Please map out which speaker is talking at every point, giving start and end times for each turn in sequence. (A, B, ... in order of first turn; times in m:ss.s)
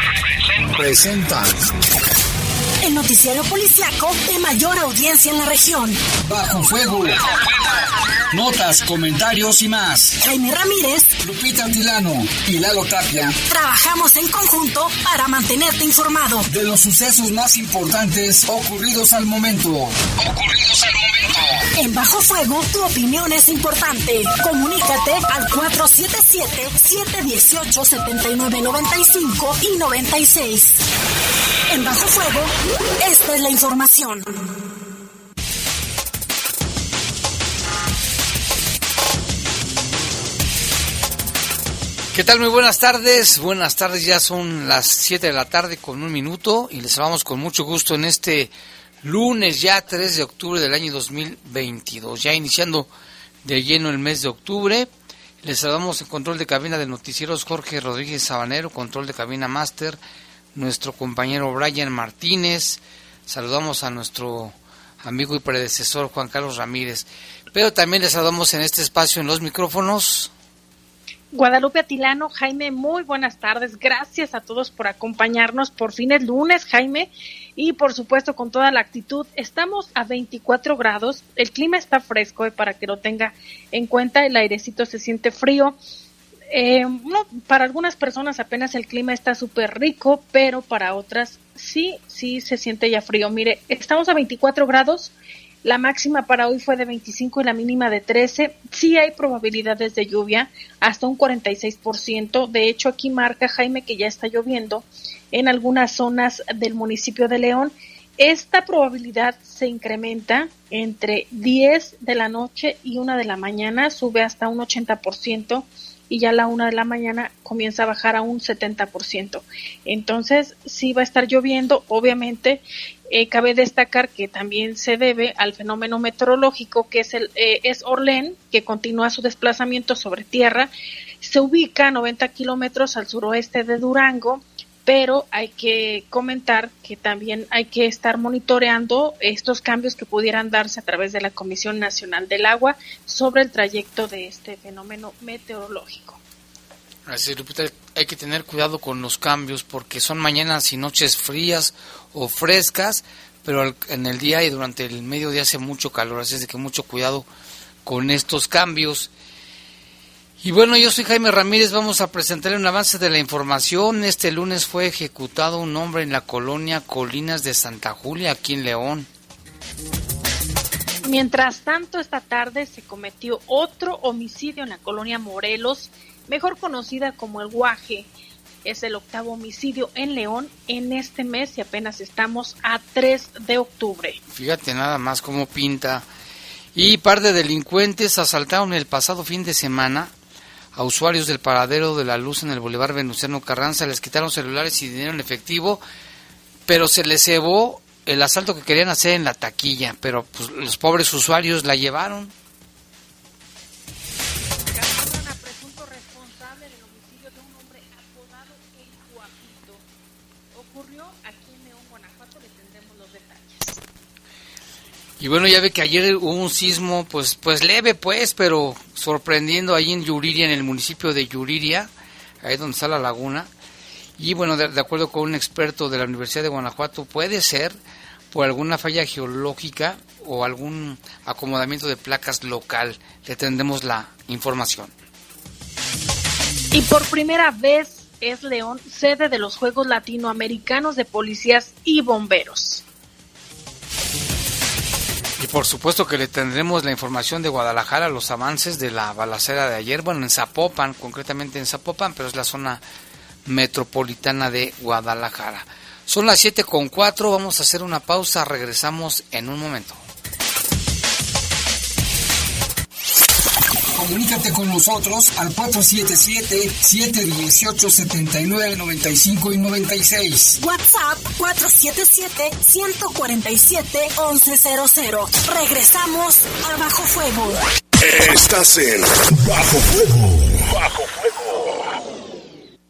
0:00.6-0:01.6 A
0:02.8-0:06.0 B
0:06.2-0:07.2 A
0:08.3-0:10.2 A
0:10.2-0:11.1 B
0:11.2-0:13.3 A
0:13.5-0:16.4 B
0:16.5-0:21.4 A
0:21.8-0:30.8 B
0:31.7-0:34.2 B
0:42.1-0:48.5 C
0:49.0-0:52.9 C
0:53.4-0:54.9 C
0:55.4-1:00.0 C
1:00.5-1:10.3 C
1:11.3-1:25.8 D
1:26.5-1:35.1 D
1:35.6-2:10.7 D
2:11.2-2:26.2 D
2:27.1-2:37.3 C
2:37.8-2:39.1 C
2:40.4-2:49.1 C
2:51.0-2:58.1 D
2:58.6-3:04.2 D
3:04.3-3:06.0 C
3:06.7-3:10.1 C
3:10.7-3:15.8 C
3:16.7-3:22.3 C
3:24.7-3:29.8 D
3:30.5-3:33.8 D
3:35.2-3:41.9 C
3:42.4-3:43.5 C
3:44.2-3:47.8 C
3:48.3-3:54.9 C
3:56.7-4:02.8 D
4:05.4-4:12.8 C
4:13.4-4:20.0 C
4:23.9-4:30.6 A
4:30.6-4:37.6 B
4:38.0-4:41.8 E